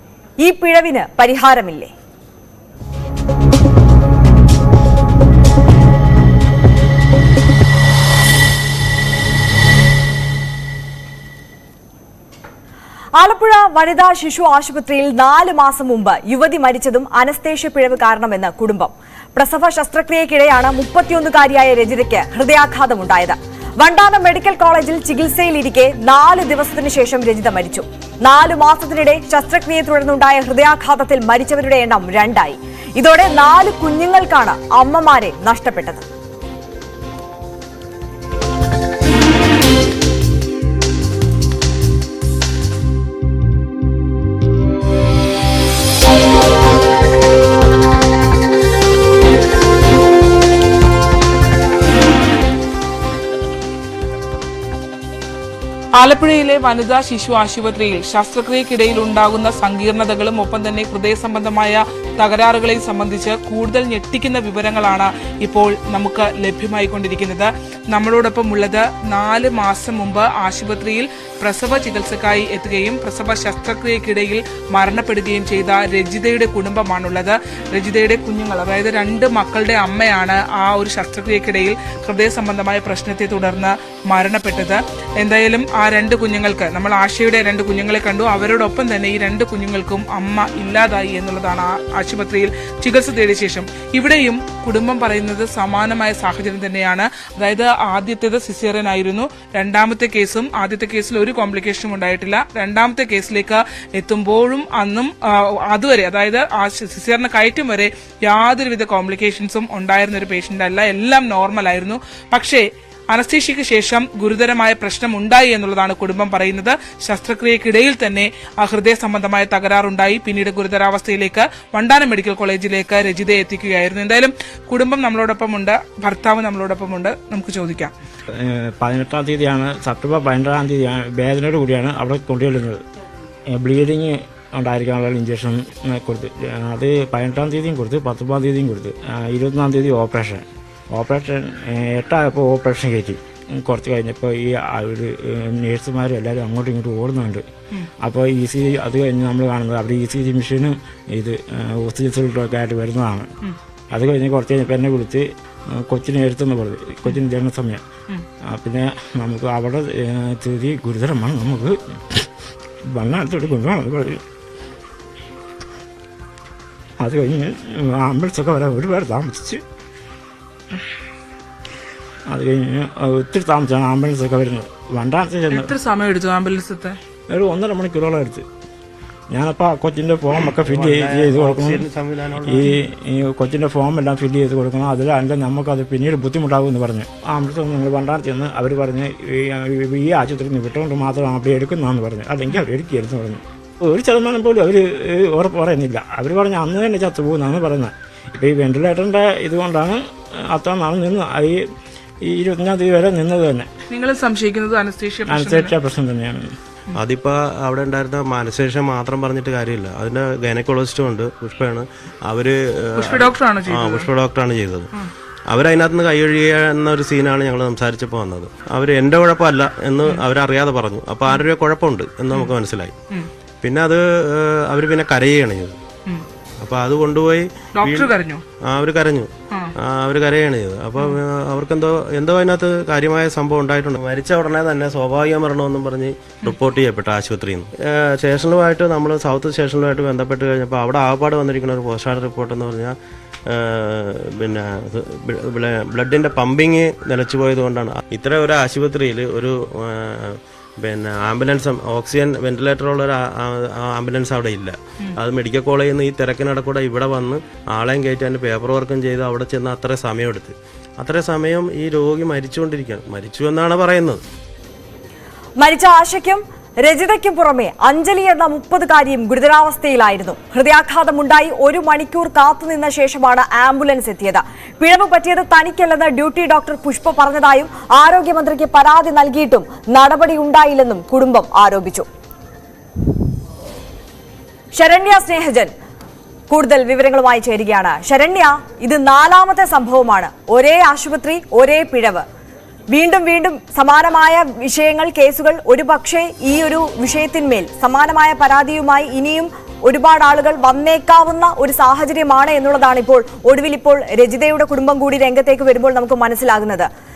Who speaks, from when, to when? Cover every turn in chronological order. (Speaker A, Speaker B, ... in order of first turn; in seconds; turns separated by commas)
Speaker A: 0.4-1.9, Speaker A: 13.2-36.0, Speaker B: 56.0-127.9, Speaker C: 128.3-132.8, Speaker C: 133.5-147.5, Speaker C: 148.0-153.3, Speaker C: 153.9-157.8, Speaker C: 158.4-162.3, Speaker C: 162.9-164.2, Speaker C: 167.0-169.6, Speaker C: 172.3-175.7, Speaker B: 175.5-177.0, Speaker C: 177.3-178.5, Speaker C: 179.3-181.9, Speaker D: 180.7-182.7, Speaker C: 182.4-201.6, Speaker C: 202.2-203.7, Speaker B: 203.9-205.7, Speaker C: 205.3-206.5, Speaker D: 207.0-214.9, Speaker B: 213.0-214.1, Speaker D: 215.5-222.9, Speaker D: 223.6-225.8, Speaker D: 226.6-243.0, Speaker B: 227.8-228.4, Speaker D: 243.5-264.2, Speaker A: 265.6-282.1, Speaker A: 284.7-285.7, Speaker A: 286.5-292.2, Speaker A: 292.9-306.9